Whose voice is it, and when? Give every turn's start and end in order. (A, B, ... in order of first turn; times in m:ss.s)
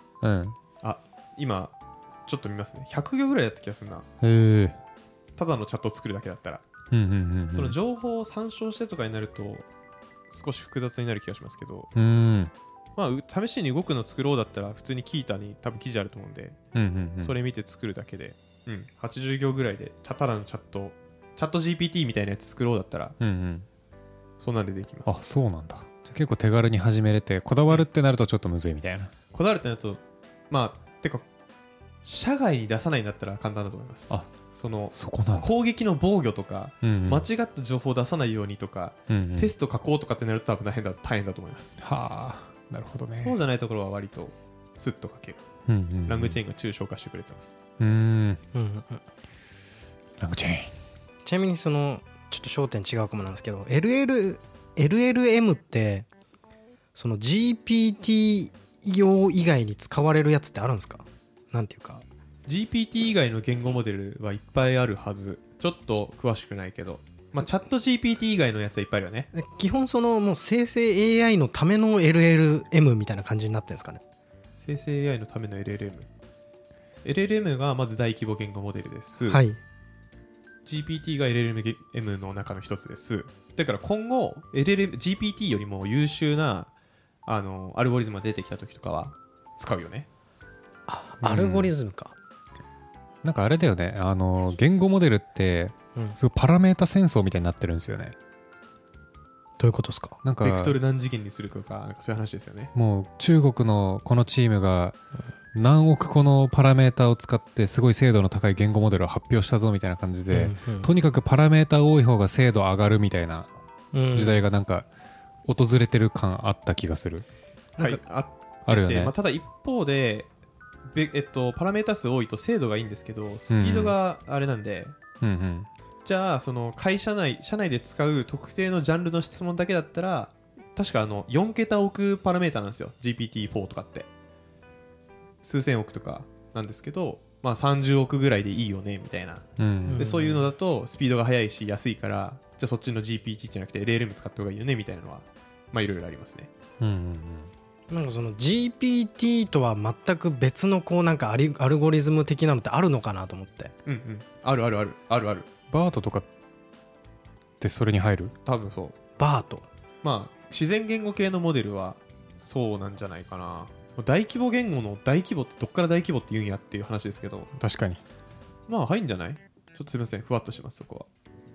0:00.2-0:00.6 A
0:00.8-0:01.7 B
0:02.3-0:04.1 B
0:04.2-0:04.8 A
0:05.4-0:06.6 B
0:06.9-0:07.8 A
0:07.5-0:09.7 B
0:10.3-0:11.9 B
0:12.0-0:12.5 A
0:13.0-0:16.6 B
0:16.7-0:17.4 A
0:17.2-0:23.2 B
0:23.2-0:23.7 A
0:24.4-0:25.1 B
0:25.1-0:29.1 A
0:29.3-0:31.2 B
0:32.0-0:41.8 B
0:34.9-0:35.5 A
0:36.8-0:37.3 A
0:39.1-0:39.5 A
0:41.8-0:43.4 A
0:43.2-0:45.4 B
0:45.7-0:46.4 A
0:46.1-0:47.5 B
0:47.8-0:48.4 A
0:48.5-0:49.0 C
0:50.2-0:50.7 A
0:51.2-0:56.1 C
0:57.0-1:02.0 C
1:02.5-1:09.3 B
1:09.3-1:14.0 C
1:14.6-1:16.1 B
1:17.0-1:19.4 B
1:19.3-1:19.6 C
1:20.7-1:26.7 B
1:27.3-1:30.1 B
1:30.9-1:32.2 C
1:31.2-1:31.7 A
1:33.2-1:38.2 A
1:39.6-1:40.2 C
1:40.2-1:40.8 A
1:40.4-1:42.7 B
1:42.8-1:45.0 A
1:45.5-1:53.5 A
1:50.3-1:50.9 C
1:53.9-1:54.4 C
1:54.1-1:54.9 A
1:55.4-1:57.2 A
1:57.8-2:00.3 B
1:58.7-1:59.1 A
2:00.9-2:05.0 B
2:03.5-2:04.0 A
2:05.2-2:05.7 A
2:06.0-2:14.1 B
2:15.4-2:19.4 B
2:19.6-2:20.1 A
2:19.9-2:20.5 C
2:20.0-2:26.5 B
2:26.8-2:27.5 A
2:27.9-2:33.7 C
2:33.9-2:35.5 B
2:35.7-2:36.3 A
2:37.6-2:38.3 A
2:38.4-2:39.0 B
2:39.2-2:39.6 C
2:40.0-2:47.5 B
2:47.6-2:48.0 A
2:48.7-2:51.1 B